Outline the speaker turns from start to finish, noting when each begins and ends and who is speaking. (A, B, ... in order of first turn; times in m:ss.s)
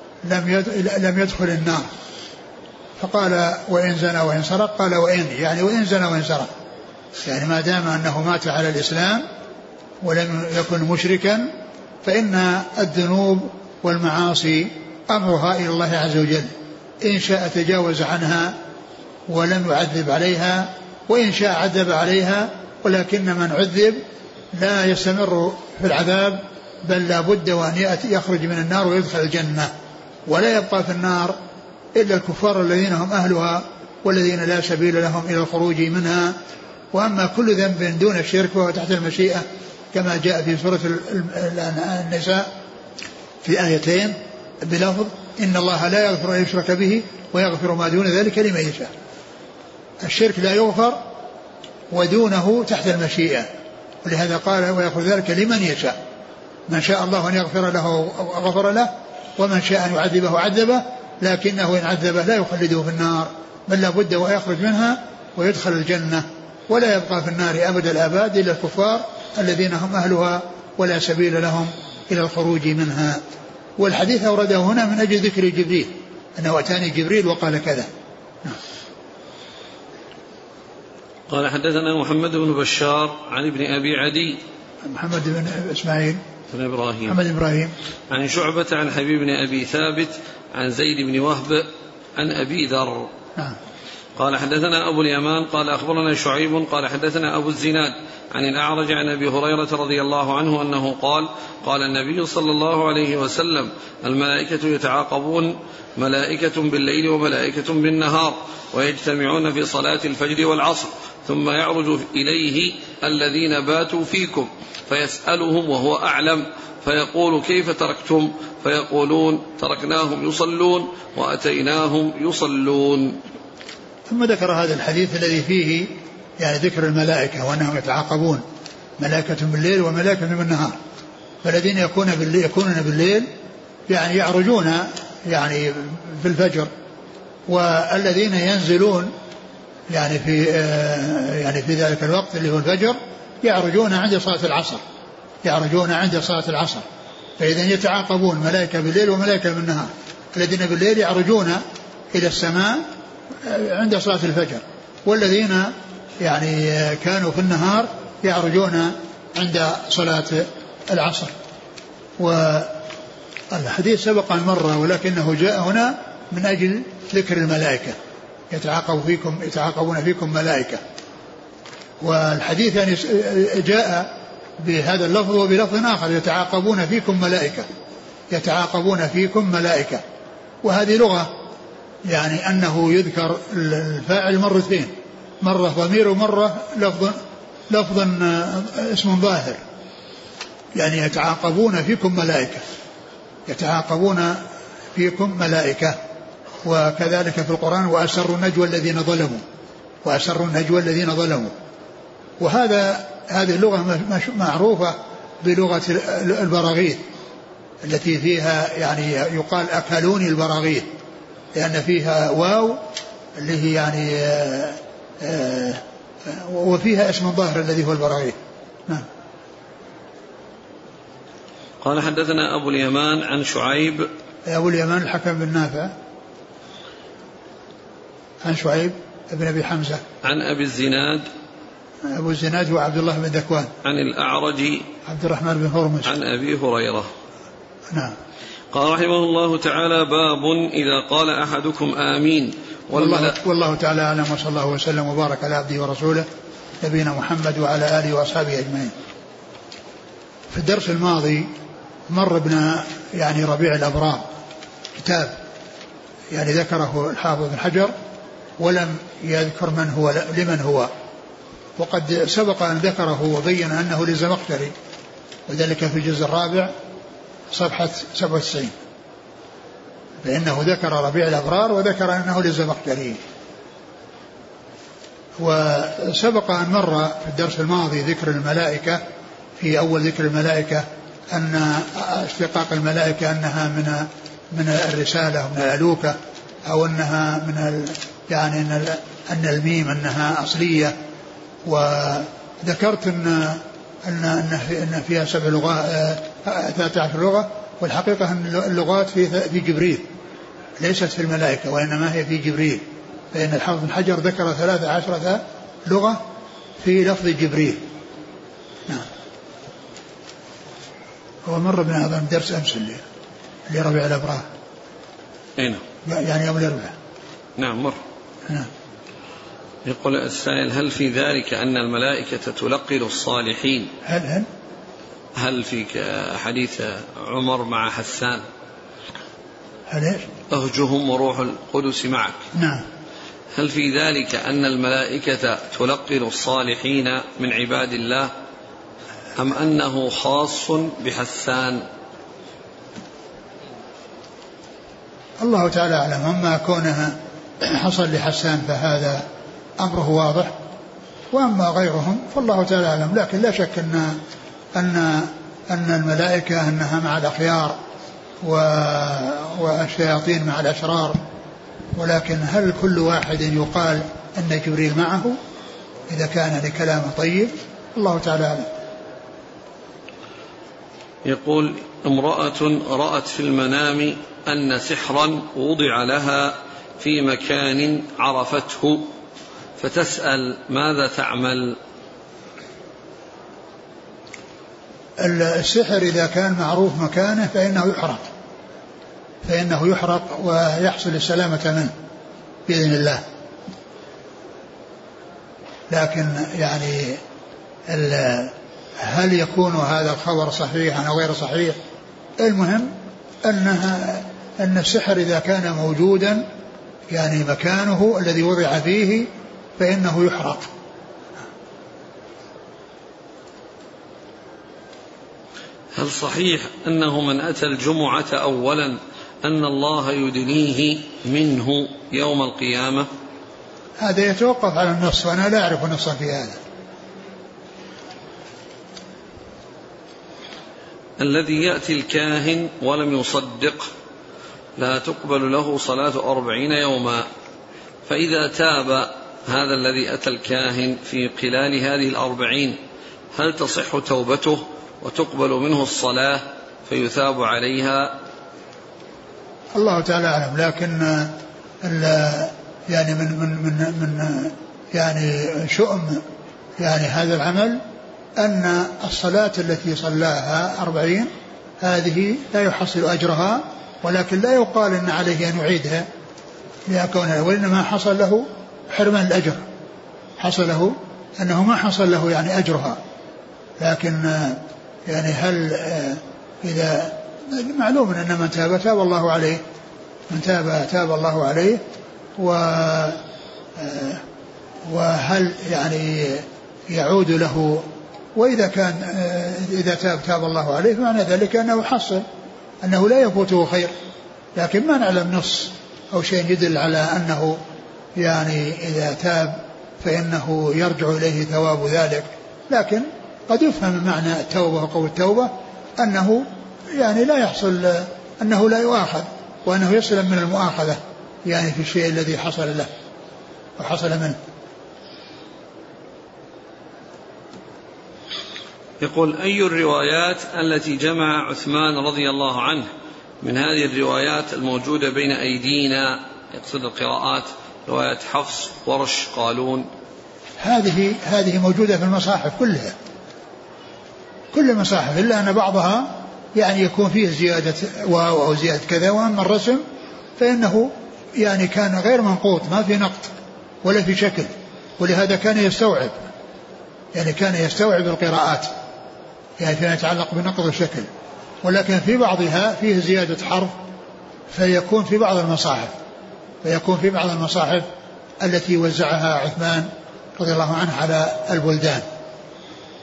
0:00.2-0:01.9 A
0:03.0-0:06.5 A
0:07.2-0:09.2 A
0:10.0-0:11.5 A
0:12.0-0:18.6 A
0:19.3-0:24.0 A
0:24.5-0:29.7 A
0:30.3-0:31.4 A
0:31.9-0:36.3 A
0:36.9-0:42.5 A
0:43.4-0:48.9 A
0:50.0-0:51.0 A
0:51.9-0:53.5 A
0:54.0-0:55.9 A
0:56.7-1:13.2 A
1:13.8-1:17.9 A
1:21.3-1:24.4 B
1:24.9-1:26.2 A
1:26.5-1:27.2 B
1:27.1-1:27.7 A
1:28.1-1:33.1 B
1:34.2-2:03.2 B
2:04.1-2:08.4 A
2:09.0-2:10.8 A
2:11.4-2:13.3 A
2:13.9-2:16.7 A
2:17.5-2:19.1 A
2:19.9-2:24.8 A
2:25.4-2:26.8 A
2:27.4-2:31.6 A
2:32.1-2:32.8 A
2:33.4-2:41.3 A
2:42.2-2:42.8 A
2:43.5-2:48.0 A
2:48.5-2:50.8 A
2:52.0-2:57.7 A
2:58.3-3:00.0 A
3:00.6-3:01.3 A
3:02.0-3:07.2 A
3:07.7-3:09.6 A
3:10.7-3:12.6 A
3:13.5-3:14.4 A
3:14.9-3:16.0 A
3:16.6-3:19.4 A
3:20.0-3:21.5 A
3:22.4-3:27.0 A
3:27.8-3:30.9 A
3:31.5-3:32.8 A
3:33.4-3:39.0 A
3:41.8-3:44.1 B
3:44.4-3:45.9 A
3:48.4-3:50.0 A
3:50.2-3:51.3 B
3:52.0-3:53.7 A
3:53.8-3:54.9 B
3:55.0-3:56.1 A
3:56.0-3:57.1 B
3:58.7-4:03.3 B
4:02.9-4:06.2 A
4:06.8-4:08.9 A
4:10.5-4:11.5 A
4:12.1-4:14.2 A
4:15.0-4:15.3 A
4:16.3-4:17.9 A
4:18.6-4:20.9 A
4:21.8-4:24.7 A
4:25.5-4:26.7 A
4:27.5-4:28.7 A
4:30.2-4:33.2 A
4:35.4-4:39.0 A
4:39.6-4:50.9 A
4:51.6-5:00.0 A
5:00.8-5:06.2 A
5:06.8-5:07.8 A
5:11.4-5:13.0 A
5:13.7-5:14.4 A
5:15.6-5:15.8 B
5:16.0-5:16.9 A
5:17.6-5:18.0 B
5:19.8-5:23.9 B
5:24.0-5:24.5 A
5:25.3-5:28.4 B
5:29.9-5:30.3 A
5:30.5-5:32.4 B
5:32.5-5:32.8 A
5:33.5-5:38.3 B
5:39.4-5:41.8 B
5:45.4-5:49.2 A
5:49.8-5:50.5 A
5:51.3-5:54.2 A
5:54.7-5:57.8 A
5:58.4-6:01.2 A
6:02.0-6:05.4 A
6:06.1-6:08.7 A
6:11.2-6:19.1 B
6:19.8-6:21.8 B
6:25.2-6:28.2 A
6:29.4-6:31.9 A
6:32.7-6:33.2 A
6:35.9-6:37.2 A
6:37.9-6:41.8 A
6:42.4-6:42.9 A
6:43.4-6:46.4 A
6:47.1-6:50.7 A
6:55.9-7:03.1 B
7:04.0-7:06.6 A
7:11.2-7:13.9 B
7:14.8-7:17.2 B
7:18.0-7:22.8 B
7:23.3-7:28.2 B
7:29.7-7:36.2 A
7:36.8-7:37.8 A
7:38.4-7:41.3 A
7:41.8-7:46.0 A
7:46.9-7:49.6 A
7:50.4-7:53.0 A
7:53.8-7:59.6 A
8:00.3-8:01.8 A
8:02.4-8:03.2 A
8:03.8-8:04.2 A
8:04.8-8:12.2 A
8:12.8-8:13.9 A
8:14.6-8:17.6 A
8:18.2-8:32.9 A
8:33.8-8:34.4 A
8:39.0-8:42.9 B
8:43.4-8:49.9 B
8:50.6-8:52.9 A
8:54.5-8:59.8 A
9:00.4-9:06.2 A
9:07.1-9:08.7 A
9:09.6-9:11.1 A
9:11.6-9:13.7 A
9:14.5-9:15.9 A
9:16.6-9:17.9 A
9:18.4-9:22.0 A